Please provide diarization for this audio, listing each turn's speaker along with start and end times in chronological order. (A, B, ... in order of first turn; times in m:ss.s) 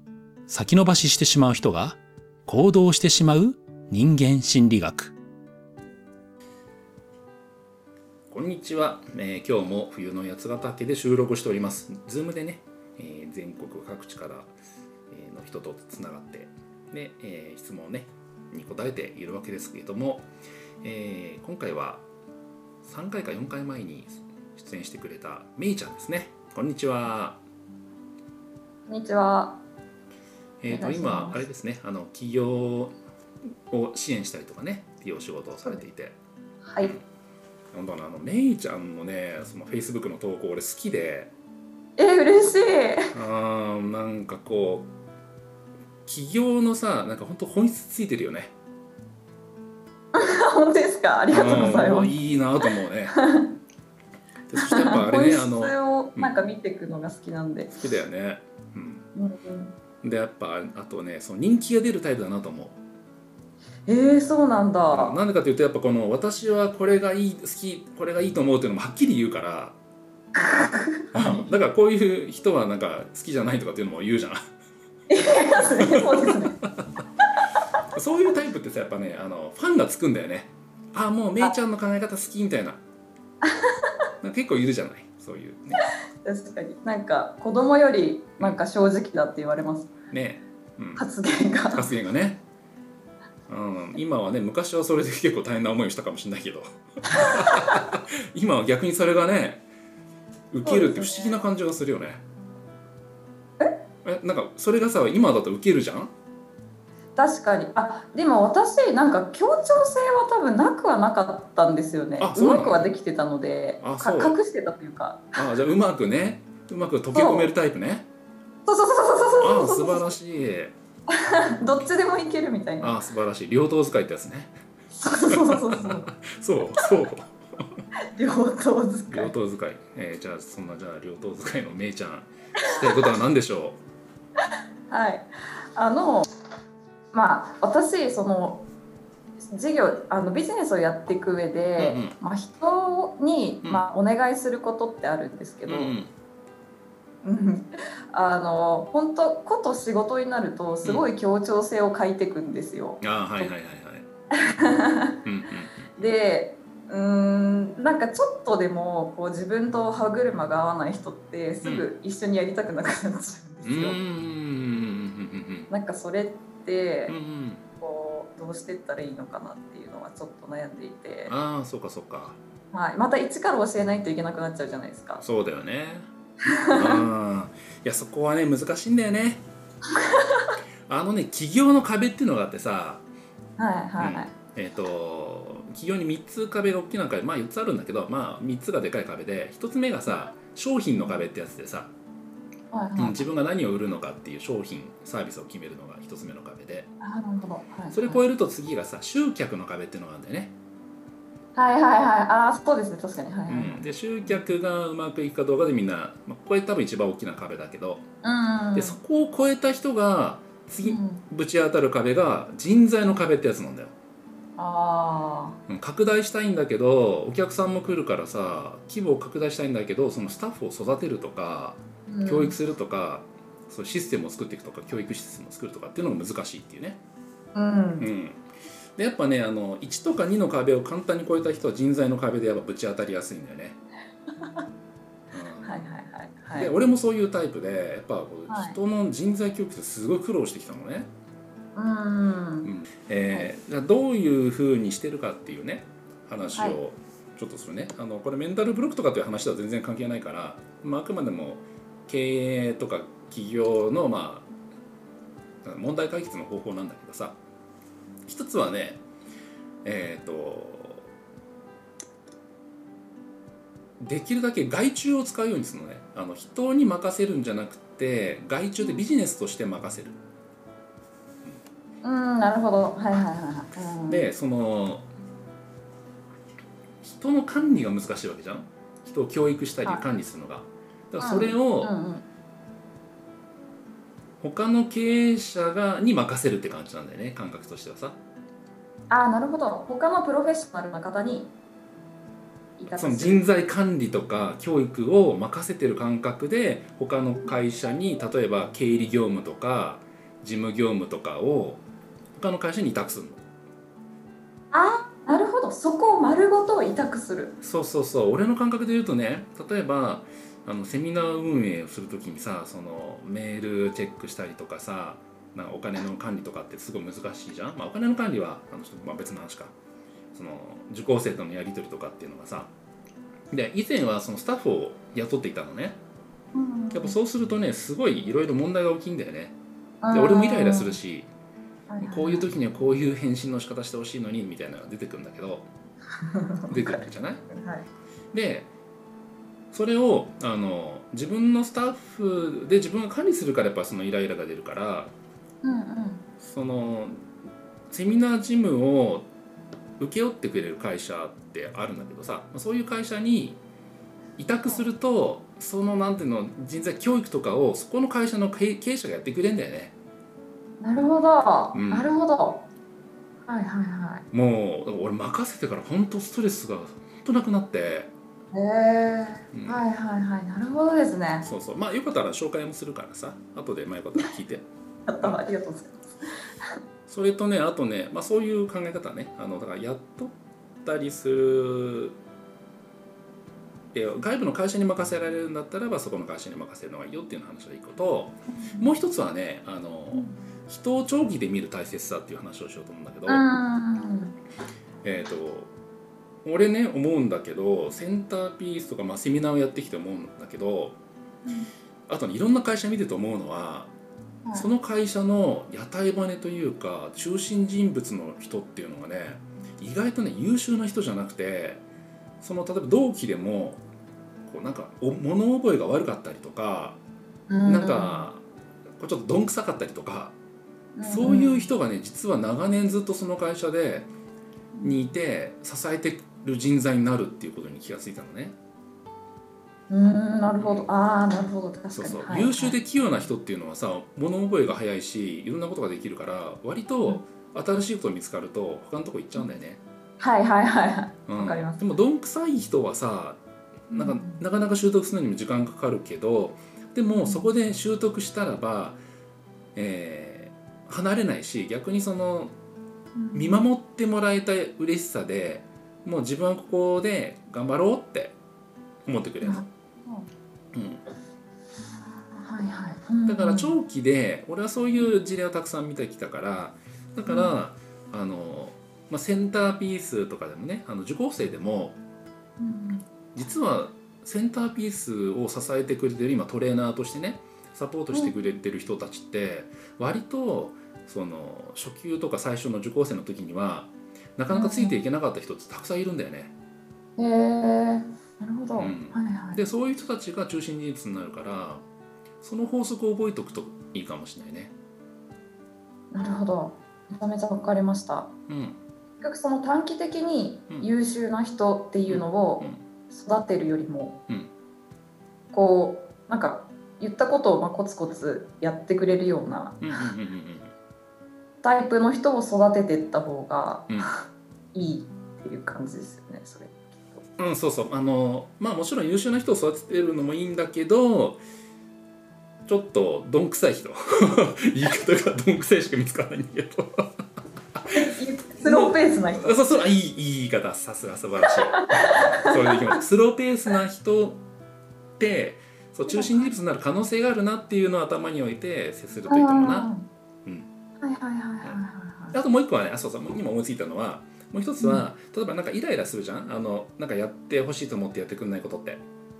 0:00.5-0:05.2 A
0:08.3-0:14.5 A
0:15.1-0:20.3 A
0:20.8-0:22.0 A
0:22.8-0:27.4 A
0:28.9-0:29.6 B
0:30.6-0:32.9 A
0:30.7-0:31.4 B
0:33.7-0:36.2 A
0:36.6-0:36.9 B
0:37.7-0:41.3 A
0:42.0-0:43.1 B
0:43.1-0:44.9 A
0:46.0-0:48.5 A
0:50.1-0:52.1 B
0:51.3-0:53.1 A
0:53.1-0:53.5 B
0:54.5-0:56.3 A
0:54.6-0:57.7 B
0:57.8-0:59.0 A
0:59.1-0:59.8 B
1:00.0-1:02.8 A
1:03.9-1:05.2 B
1:04.9-1:09.8 A
1:10.4-1:11.5 B
1:11.1-1:14.4 A
1:15.1-1:16.6 B
1:15.8-1:16.4 A
1:17.9-1:22.8 A
1:23.4-1:23.9 B
1:24.2-1:25.8 A
1:26.2-1:29.9 B
1:30.1-1:31.0 A
1:31.0-1:31.9 B
1:31.7-1:32.4 A
1:33.5-1:39.6 A
1:37.1-1:37.8 B
1:40.5-1:42.2 A
1:40.6-1:41.4 B
1:44.0-1:46.1 A
1:47.2-1:55.4 B
1:52.2-1:52.9 A
1:53.8-1:54.4 A
1:55.3-1:58.0 A
1:57.1-1:57.5 B
1:58.6-2:00.1 B
1:59.4-2:00.8 A
2:01.1-2:03.0 B
2:02.8-2:04.5 A
2:04.9-2:06.1 B
2:05.3-2:07.6 A
2:08.1-2:09.3 B
2:09.1-2:13.8 A
2:14.9-2:16.3 B
2:17.1-2:18.7 B
2:19.5-2:26.0 B
2:21.8-2:22.1 A
2:25.7-2:26.1 A
2:27.2-2:33.5 B
2:33.0-2:34.0 A
2:34.4-2:35.2 B
2:35.2-2:36.1 A
2:36.0-2:44.0 B
2:43.6-2:45.7 A
2:45.7-2:47.2 B
2:47.1-2:47.6 A
2:47.8-2:51.3 B
2:51.3-2:52.4 A
2:52.7-2:55.2 B
2:55.2-2:56.1 A
2:56.5-2:57.0 B
2:56.7-2:59.4 A
2:59.9-3:00.6 B
3:00.9-3:03.0 A
3:03.6-3:04.3 B
3:04.0-3:11.9 A
3:12.7-3:13.3 B
3:13.0-3:16.9 A
3:17.0-3:18.2 B
3:17.9-3:20.5 A
3:21.5-3:24.5 B
3:23.5-3:28.0 A
3:28.2-3:29.0 B
3:28.7-3:33.9 A
3:30.8-3:31.2 B
3:34.6-3:35.6 B
3:35.7-3:47.0 A
3:42.1-3:42.6 B
3:47.5-3:48.1 B
3:48.0-3:48.4 A
3:49.0-3:53.8 A
3:54.4-3:54.6 B
3:55.3-3:55.8 A
3:55.6-3:56.8 B
3:56.5-4:01.1 A
3:58.5-3:58.8 B
4:01.7-4:02.7 B
4:02.6-4:14.5 A
4:15.6-4:17.4 A
4:18.3-4:19.0 A
4:19.8-4:21.1 A
4:24.0-4:30.2 A
4:32.0-4:34.3 B
4:34.1-4:35.1 A
4:37.0-4:41.9 A
4:41.2-4:42.3 B
4:44.4-4:48.2 A
4:49.1-4:51.5 B
4:52.8-4:53.4 B
4:52.9-5:01.8 A
5:02.3-5:03.4 A
5:04.7-5:07.6 B
5:07.6-5:19.7 A
5:20.3-5:22.7 A
5:23.5-5:26.0 A
5:26.5-5:27.2 B
5:26.9-5:29.6 A
5:30.0-5:31.0 B
5:30.1-5:31.3 A
5:31.9-5:32.5 B
5:32.0-5:35.7 A
5:36.2-5:37.9 B
5:36.7-5:37.4 A
5:38.3-5:38.7 A
5:39.7-5:45.1 A
5:45.6-5:46.3 B
5:46.4-5:47.2 A
5:47.9-5:49.3 A
5:50.0-5:53.6 A
5:54.4-5:59.9 A
6:00.8-6:02.6 B
6:01.7-6:02.1 A
6:03.4-6:04.2 B
6:04.3-6:08.1 A
6:08.5-6:11.5 B
6:09.5-6:09.8 A
6:11.4-6:14.6 A
6:15.1-6:16.0 B
6:17.1-6:22.2 A
6:23.9-6:33.4 A
6:28.5-6:28.9 B
6:30.1-6:30.4 B
6:33.3-6:34.4 B
6:35.0-6:35.7 A
6:36.4-6:41.0 A
6:41.4-6:41.7 B
6:42.1-6:43.9 A
6:44.4-6:44.7 B
6:44.5-6:51.8 A
6:52.4-6:53.8 A
6:54.4-6:57.0 A
6:57.5-6:58.2 B
6:57.6-6:58.4 A
6:59.0-7:00.3 A
7:00.9-7:01.7 B
7:01.0-7:04.1 A
7:04.8-7:08.6 A
7:09.9-7:12.8 B
7:10.6-7:10.9 A
7:11.9-7:19.8 A
7:20.2-7:21.8 B
7:21.3-7:29.0 A
7:23.9-7:24.4 B
7:27.2-7:27.5 B
7:29.7-7:32.5 A
7:33.2-7:33.6 B
7:33.3-7:38.4 A
7:39.0-7:39.6 A
7:39.4-7:40.3 B
7:40.7-7:41.0 A
7:42.3-7:43.8 B
7:43.2-7:52.0 A
7:47.2-7:47.6 B
7:52.6-7:53.1 B
7:53.3-8:06.5 A
8:04.5-8:05.0 B
8:07.2-8:09.6 B
8:08.8-8:11.8 A
8:12.4-8:14.7 A
8:16.1-8:18.3 B
8:18.5-8:18.8 A
8:19.2-8:24.2 B
8:22.1-8:22.8 A
8:25.5-8:30.1 B
8:29.8-8:30.7 A
8:31.6-8:37.2 B
8:37.4-8:41.4 A
8:42.6-8:47.1 A
8:47.8-8:48.0 A
8:47.9-8:49.8 B
8:48.6-8:54.4 A
8:51.5-8:53.0 B
8:55.2-8:59.9 A
8:56.1-8:56.5 B
8:59.3-9:00.1 B
9:01.0-9:02.4 B
9:02.3-9:09.0 A
9:04.8-9:05.1 B